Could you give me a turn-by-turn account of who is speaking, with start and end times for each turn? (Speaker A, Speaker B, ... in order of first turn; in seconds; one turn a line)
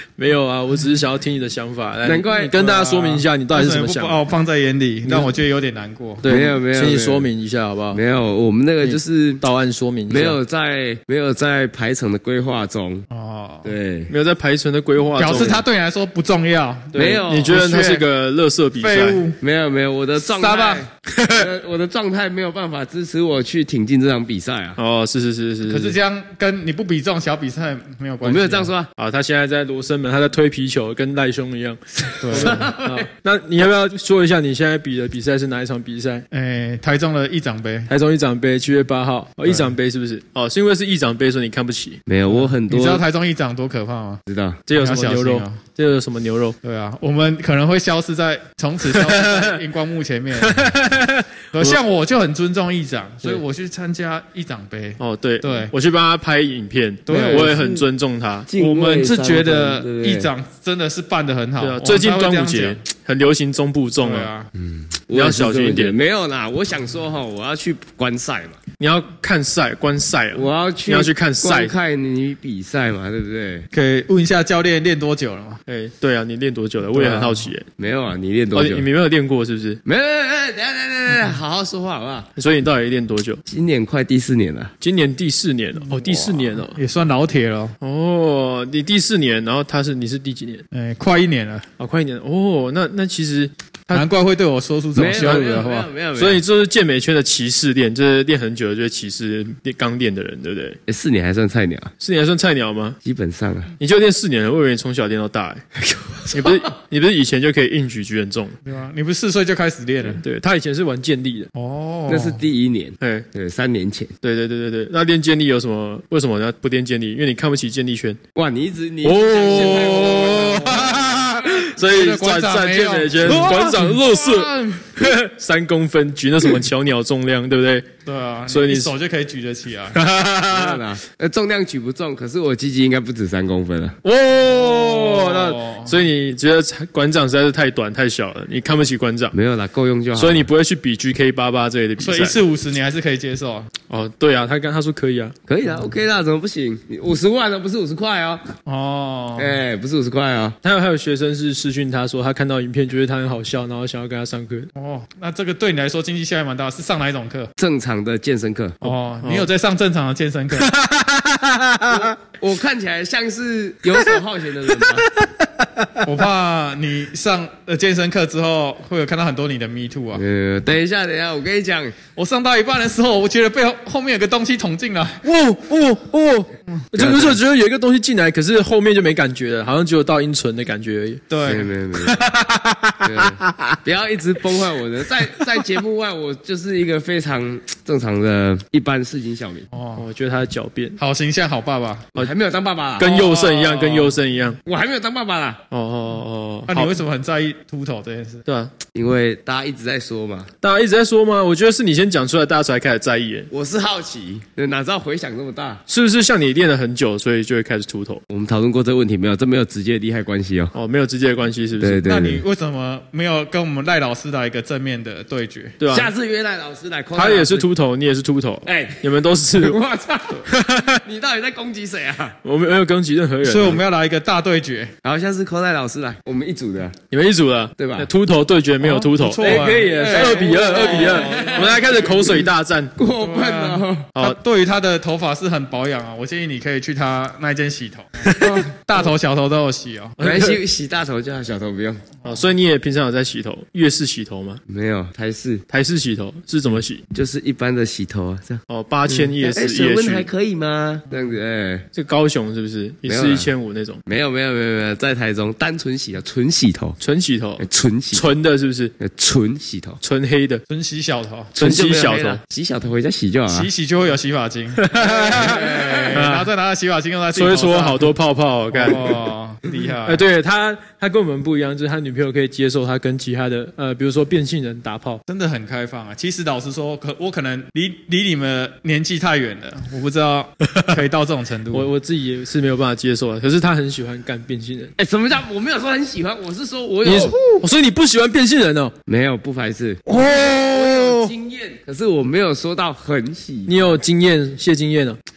Speaker A: 0.2-4.2
Speaker B: 2.0-3.2
Speaker C: 3.5-6.2
Speaker A: 5.0-5.3
Speaker A: 6.2-8.0
Speaker B: 6.3-7.3
Speaker B: 7.9-9.4
Speaker A: 8.8-10.4
Speaker B: 10.1-13.1
Speaker C: 13.1-13.7
Speaker B: 13.6-14.1
Speaker A: 14.1-15.6
Speaker C: 15.2-18.0
Speaker A: 16.9-19.2
Speaker B: 16.9-17.6
Speaker C: 18.8-19.4
Speaker B: 19.4-24.8
Speaker C: 20.2-20.9
Speaker A: 24.8-25.9
Speaker C: 25.7-28.7
Speaker B: 28.2-28.9
Speaker A: 29.0-36.2
Speaker C: 32.2-32.6
Speaker B: 32.3-33.1
Speaker C: 36.3-37.9
Speaker A: 37.9-42.4
Speaker B: 42.1-43.0
Speaker C: 42.7-44.2
Speaker B: 44.3-44.6
Speaker A: 44.7-46.6
Speaker C: 44.8-45.6
Speaker C: 46.6-50.8
Speaker A: 48.9-49.6
Speaker A: 50.4-51.8
Speaker C: 51.5-55.7
Speaker A: 55.0-58.5
Speaker C: 57.1-57.7
Speaker B: 57.1-57.9
Speaker B: 58.5-60.3
Speaker C: 58.5-62.8
Speaker A: 61.6-64.3
Speaker C: 64.0-64.5
Speaker B: 64.5-68.6
Speaker A: 65.1-66.0
Speaker A: 68.8-71.7
Speaker B: 70.3-73.7
Speaker C: 73.7-75.6
Speaker A: 75.7-77.7
Speaker C: 76.9-77.5
Speaker B: 77.8-78.9
Speaker A: 78.5-79.8
Speaker B: 79.8-82.3
Speaker A: 82.3-83.4
Speaker B: 83.5-84.7
Speaker A: 84.8-86.8
Speaker C: 85.8-87.7
Speaker A: 87.8-90.6
Speaker C: 90.7-91.7
Speaker A: 91.8-94.1
Speaker C: 93.9-95.9
Speaker B: 94.9-96.4
Speaker A: 95.1-95.6
Speaker A: 96.1-100.8
Speaker B: 100.9-101.9
Speaker A: 102.0-103.0
Speaker B: 103.0-103.7
Speaker A: 103.8-105.6
Speaker B: 105.8-106.7
Speaker A: 106.3-108.6
Speaker C: 108.6-110.2
Speaker A: 110.2-111.5
Speaker C: 111.5-112.4
Speaker B: 112.1-114.1
Speaker A: 113.0-113.2
Speaker A: 114.2-118.2
Speaker B: 118.3-121.5
Speaker A: 119.0-121.0
Speaker C: 119.5-125.1
Speaker A: 121.6-127.9
Speaker C: 128.1-130.0
Speaker A: 128.5-128.9
Speaker A: 129.9-130.8
Speaker B: 130.5-134.0
Speaker A: 134.0-139.3
Speaker C: 134.4-136.0
Speaker B: 139.3-140.5
Speaker A: 140.1-142.4
Speaker C: 142.0-143.7
Speaker A: 143.9-145.3
Speaker B: 145.5-148.5
Speaker C: 148.7-149.6
Speaker B: 149.3-150.6
Speaker A: 150.6-154.7
Speaker C: 154.7-157.5
Speaker B: 157.6-158.8
Speaker C: 158.8-160.7
Speaker A: 159.2-159.5
Speaker A: 160.7-162.1
Speaker B: 162.4-165.1
Speaker A: 164.8-166.0
Speaker C: 166.0-170.2
Speaker B: 170.1-172.0
Speaker C: 172.1-175.2
Speaker A: 175.2-181.2
Speaker B: 176.9-177.4
Speaker C: 181.3-182.9
Speaker B: 181.4-182.2
Speaker B: 183.0-189.7
Speaker A: 183.2-183.8
Speaker C: 189.7-190.0
Speaker A: 189.9-191.0
Speaker C: 191.0-192.2
Speaker B: 192.2-193.2
Speaker A: 193.0-194.6
Speaker C: 193.0-194.2
Speaker B: 194.6-195.6
Speaker A: 195.7-196.9
Speaker C: 196.7-198.4
Speaker A: 198.4-198.7
Speaker B: 198.9-200.5
Speaker A: 200.6-203.5
Speaker B: 203.5-205.8
Speaker A: 205.9-208.2
Speaker B: 208.3-210.7
Speaker A: 210.7-212.0
Speaker B: 211.8-212.4
Speaker C: 212.0-215.8
Speaker A: 215.8-216.1
Speaker B: 215.9-217.7
Speaker A: 217.1-219.8
Speaker B: 218.6-222.4
Speaker A: 220.5-221.0
Speaker A: 222.4-223.8
Speaker C: 223.4-224.9
Speaker B: 225.0-227.0
Speaker A: 227.1-232.9
Speaker B: 227.8-228.1
Speaker C: 228.8-232.2
Speaker B: 229.4-232.4
Speaker B: 233.0-234.1
Speaker C: 233.2-240.2
Speaker A: 238.2-238.6
Speaker A: 240.2-240.6
Speaker B: 240.2-242.1
Speaker A: 242.2-244.6
Speaker B: 244.7-245.6
Speaker A: 245.7-247.0
Speaker B: 247.1-251.9
Speaker A: 248.7-250.3
Speaker A: 251.9-254.0
Speaker B: 253.0-253.5
Speaker B: 254.1-257.0
Speaker A: 257.0-258.9
Speaker B: 257.6-258.3
Speaker B: 259.0-260.0
Speaker A: 260.0-260.6
Speaker C: 260.7-261.5
Speaker B: 261.5-263.7
Speaker A: 261.6-262.4
Speaker C: 263.5-268.1
Speaker A: 264.8-266.5
Speaker B: 265.0-266.2
Speaker A: 267.3-269.2
Speaker C: 268.7-270.2
Speaker A: 270.0-275.2
Speaker C: 275.3-281.9
Speaker A: 281.7-284.9
Speaker B: 285.0-287.5
Speaker A: 287.0-288.9
Speaker B: 289.1-293.9
Speaker A: 290.1-291.3
Speaker A: 293.6-295.2